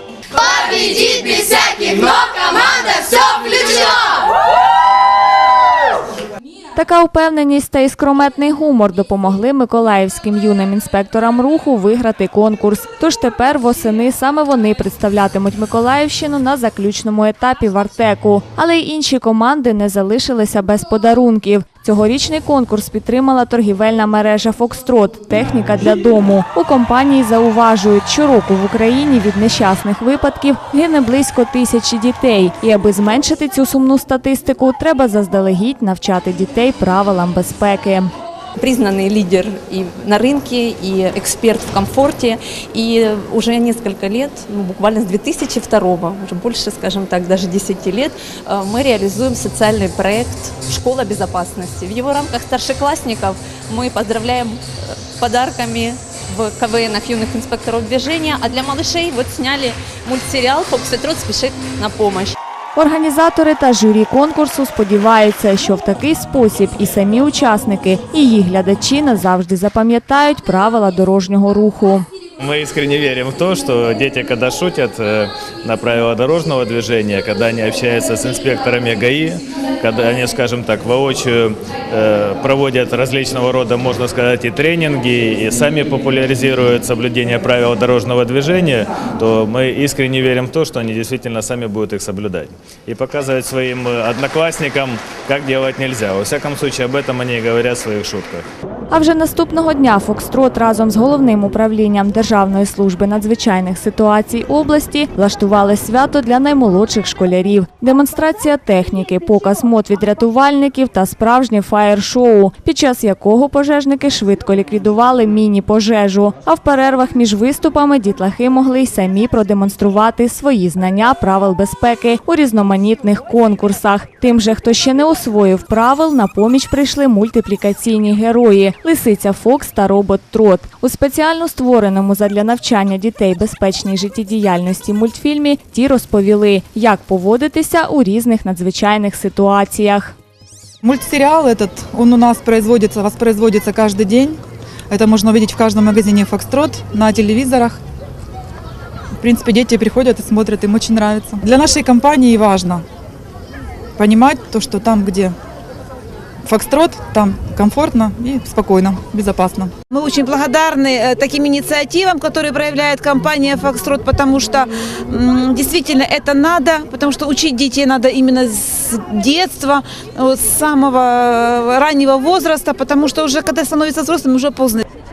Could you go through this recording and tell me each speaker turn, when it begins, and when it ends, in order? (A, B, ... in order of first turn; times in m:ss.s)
0:00.4-0:04.2 A
0:06.7-0:38.1 B
0:38.6-0:54.6 C
0:55.2-1:02.4 C
1:02.8-1:12.0 B
1:12.4-1:38.4 D
1:38.9-2:20.2 B
2:20.8-2:27.8 E
2:29.2-2:32.8 E
2:34.0-2:35.3 E
2:36.4-2:39.7 E
2:39.9-2:54.8 F